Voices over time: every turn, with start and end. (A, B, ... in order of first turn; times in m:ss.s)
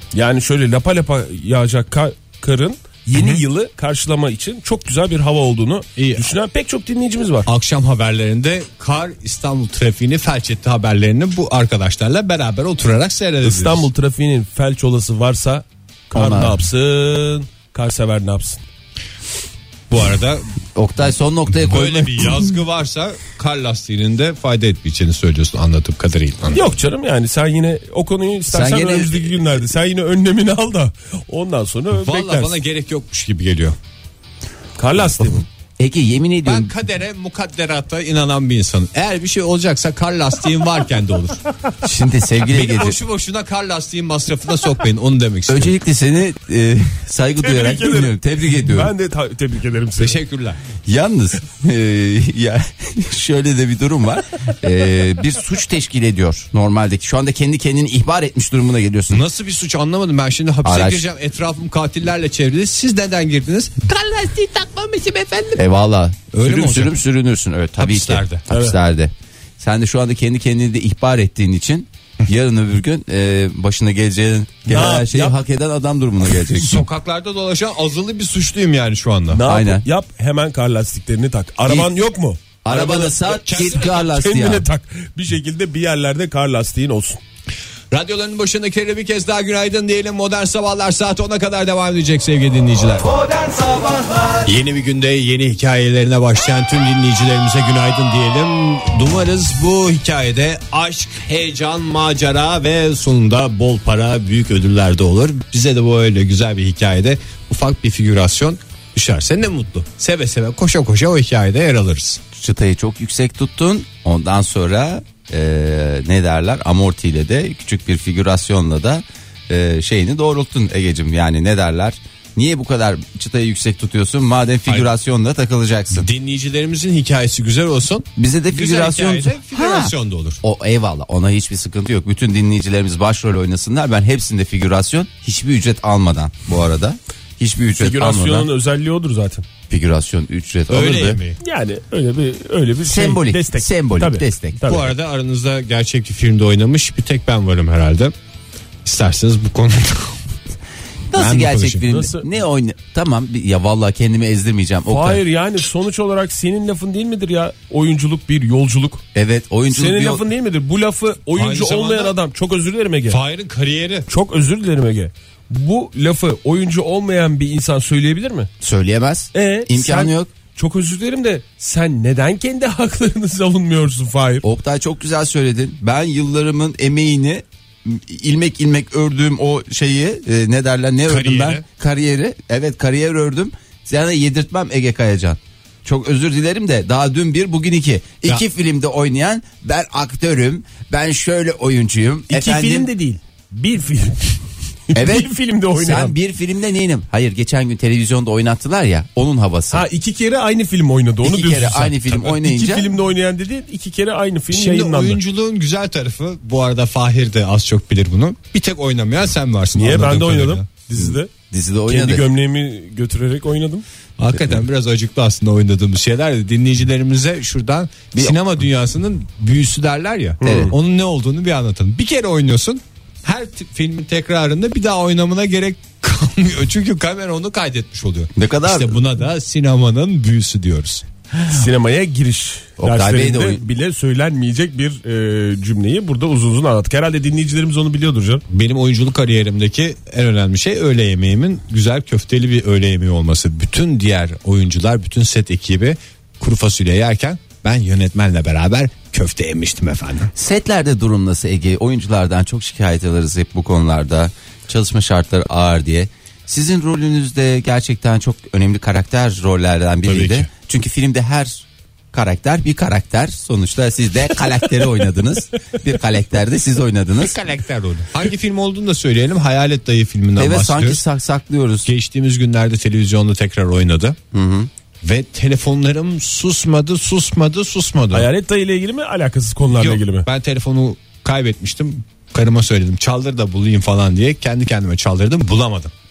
0:00.1-0:07.4 A
0:03.1-0:03.4 B
0:06.0-0:06.3 B
0:07.4-0:13.9 B
0:13.4-0:18.6 A
0:16.1-0:16.6 C
0:19.9-0:20.5 B
0:20.8-0:22.5 C
0:21.6-0:26.6 B
0:26.5-0:32.6 A
0:28.5-0:29.5 C
0:31.9-0:33.8 B
0:34.8-0:35.4 A
0:35.8-0:36.7 C
0:36.4-0:41.4 B
0:41.8-0:43.0 C
0:42.5-0:45.7 B
0:45.5-0:48.9 C
0:47.4-0:50.2 A
0:50.0-0:50.6 B
0:50.8-0:59.2 C
0:59.1-1:05.6 B
1:00.6-1:01.0 C
1:05.6-1:16.8 C
1:06.3-1:07.0 B
1:07.8-1:08.4 B
1:08.5-1:08.8 A
1:14.7-1:15.4 A
1:16.5-1:19.4 B
1:19.3-1:27.2 A
1:19.4-1:19.8 C
1:21.6-1:21.9 C
1:22.6-1:24.6 C
1:23.3-1:24.1 B
1:27.9-1:52.2 B
1:52.3-2:06.1 C
2:05.9-2:10.4 B
2:08.2-2:18.5 C
2:17.8-2:19.4 A
2:19.7-2:21.2 C
2:20.7-2:21.4 B
2:21.4-2:24.9 A
2:22.8-2:24.6 C
2:24.7-2:28.1 B
2:28.8-2:30.2 B
2:31.1-2:35.2 C
2:31.1-2:31.8 B
2:31.9-2:32.3 A
2:34.9-2:39.0 A
2:39.1-2:40.2 C
2:39.7-2:43.2 A
2:41.4-2:42.1 B
2:43.1-2:44.1 B
2:44.1-2:48.5 A
2:48.6-2:50.3 C
2:49.3-2:54.4 A
2:54.4-3:12.9 C
3:01.1-3:01.6 B
3:12.3-3:16.1 A
3:14.9-3:19.8 C
3:19.7-3:25.2 A
3:21.2-3:22.9 C
3:24.5-3:30.6 B
3:29.7-3:31.3 A
3:31.0-3:32.3 C
3:31.9-3:33.8 A
3:34.2-3:51.0 B
3:40.4-3:40.7 A
3:40.4-3:40.7 C
3:48.3-3:49.0 C
3:51.5-3:58.4 A
3:52.8-3:53.6 C
3:58.5-4:10.3 B
4:10.3-4:27.4 C
4:20.0-4:20.5 B
4:27.2-4:31.0 B
4:30.4-4:31.9 C
4:31.8-4:34.2 B
4:34.3-4:34.7 C
4:35.0-4:38.3 B
4:38.1-4:40.2 A
4:39.7-4:45.9 B